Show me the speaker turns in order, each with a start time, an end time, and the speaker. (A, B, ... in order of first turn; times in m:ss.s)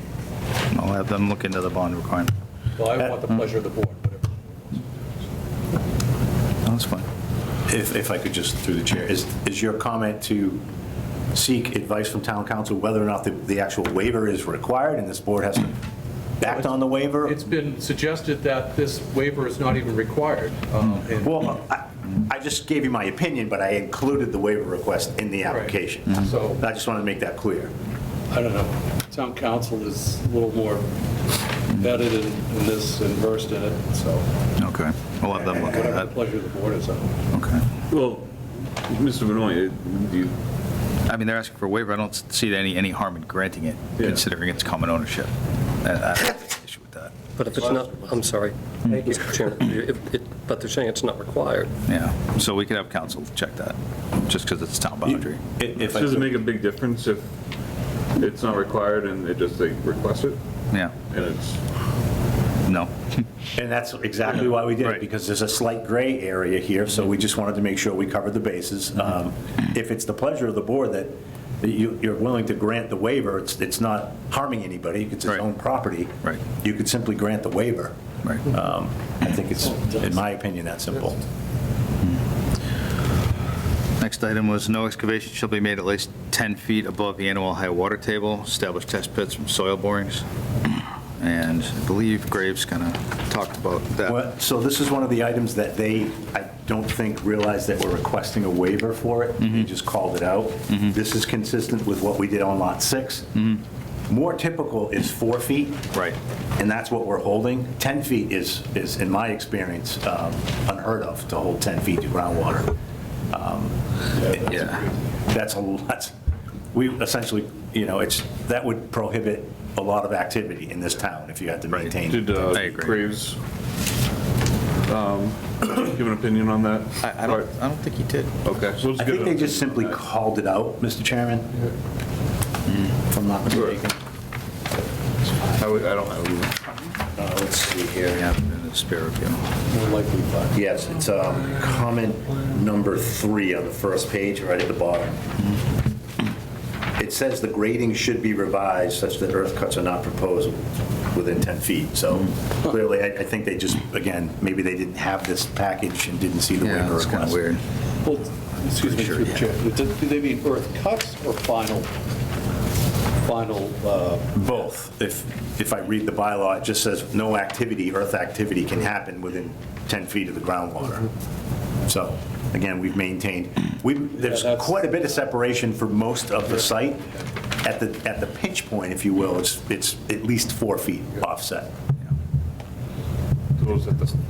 0:00.7-0:02.3 A
0:02.8-0:05.1 B
0:06.6-0:07.1 A
0:07.7-0:10.6 C
0:11.3-0:15.8 C
0:16.4-0:17.4 C
0:17.2-0:21.5 B
0:21.2-0:27.7 C
0:25.4-0:26.6 B
0:28.3-0:31.0 B
0:31.7-0:34.3 B
0:34.6-0:36.1 A
0:35.3-0:37.2 B
0:37.3-0:37.6 A
0:37.9-0:38.3 D
0:38.8-0:40.4 D
0:41.1-0:45.3 A
0:45.8-0:47.1 A
0:47.4-0:51.7 E
0:51.9-0:55.4 A
0:55.1-0:56.4 C
0:55.8-0:57.3 D
0:58.2-1:00.4 D
1:01.1-1:01.6 D
1:02.7-1:03.2 A
1:03.6-1:18.0 C
1:18.2-1:18.5 A
1:18.5-1:21.2 C
1:24.0-1:34.2 A
1:34.1-1:43.5 C
1:39.4-1:39.7 A
1:40.7-1:41.0 A
1:44.1-1:45.9 C
1:46.6-1:52.7 C
1:53.3-1:54.6 C
1:54.5-1:54.8 A
1:55.3-1:56.1 C
1:56.7-2:02.7 C
2:02.0-2:03.4 D
2:02.5-2:03.0 A
2:04.9-2:07.5 D
2:07.0-2:08.3 A
2:08.4-2:10.0 D
2:09.0-2:11.6 C
2:13.1-2:14.0 C
2:13.5-2:13.8 D
2:15.5-2:16.6 D
2:17.2-2:18.3 C
2:18.1-2:19.4 A
2:19.7-2:20.7 B
2:20.5-2:25.2 C
2:27.0-2:30.6 C
2:31.1-2:37.4 C
2:36.6-2:37.6 A
2:38.0-2:41.9 B
2:38.7-2:39.5 A
2:43.2-2:44.4 B
2:44.4-2:51.1 C
2:51.9-2:57.1 C
2:54.2-2:55.0 B
2:57.6-3:01.8 C
3:03.6-3:04.2 D